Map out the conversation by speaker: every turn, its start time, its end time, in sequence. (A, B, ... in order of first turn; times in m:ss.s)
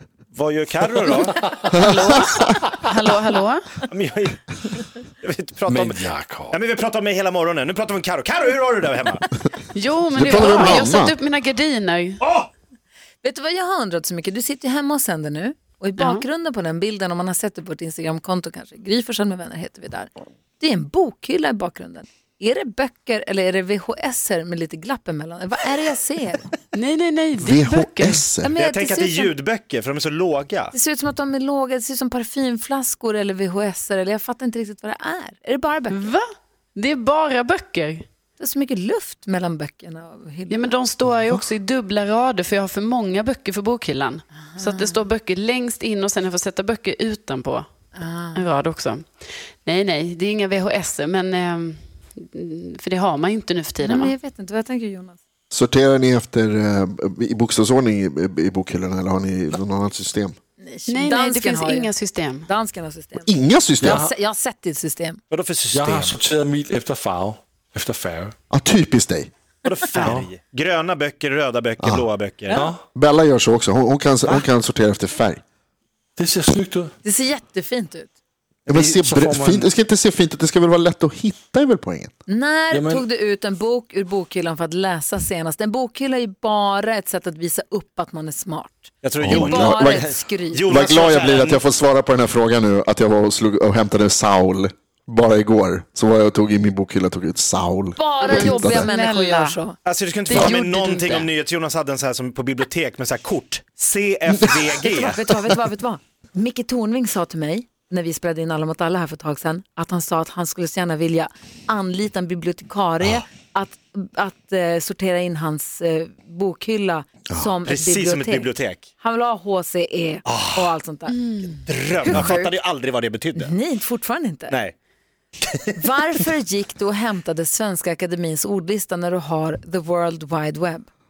0:00.3-0:01.4 A
0:01.7-0:03.6 B
0:01.8-0:02.3 C
0:03.9-0:09.3 A
0:05.7-0:06.6 D
0:09.7-0:12.2 B
0:10.1-0:11.2 C
0:12.2-0:12.5 A
0:13.2-0:26.5 E
0:26.7-0:28.3 B
0:27.4-0:28.5 C
0:28.4-0:29.3 E
0:28.5-0:30.7 A
0:30.7-0:36.0 E
0:35.9-0:38.0 B
0:38.4-0:40.7 E
0:40.5-0:47.7 B
0:44.5-0:44.9 E
0:47.9-0:48.4 E
0:48.3-0:54.1 B
0:53.8-0:55.2 E
0:55.5-1:00.4 C
1:00.6-1:01.9 E
1:00.9-1:02.5 B
1:02.4-1:03.3 E
1:03.2-1:04.0 C
1:03.8-1:04.1 D
1:03.8-1:05.2 E
1:05.3-1:06.2 A
1:05.7-1:08.3 D
1:08.5-1:09.3 C
1:09.6-1:12.6 A
1:10.0-1:10.3 D
1:11.8-1:12.0 C
1:12.5-1:12.8 D
1:12.9-1:15.4 C
1:16.2-1:16.9 D
1:17.0-1:18.1 E
1:18.7-1:22.1 C
1:18.7-1:19.7 D
1:22.3-1:30.6 E
1:22.7-1:23.0 D
1:29.0-1:31.6 A
1:29.2-1:30.1 C
1:30.6-1:38.9 C
1:38.0-1:39.8 E
1:38.2-1:39.6 B
1:39.8-1:45.3 A
1:40.2-1:41.3 B
1:44.8-2:01.2 E
1:57.6-1:58.9 A
2:00.2-2:00.7 A
2:01.1-2:01.4 B
2:01.6-2:03.5 A
2:02.0-2:02.5 E
2:03.3-2:04.6 E
2:04.5-2:04.7 A
2:05.8-2:10.9 E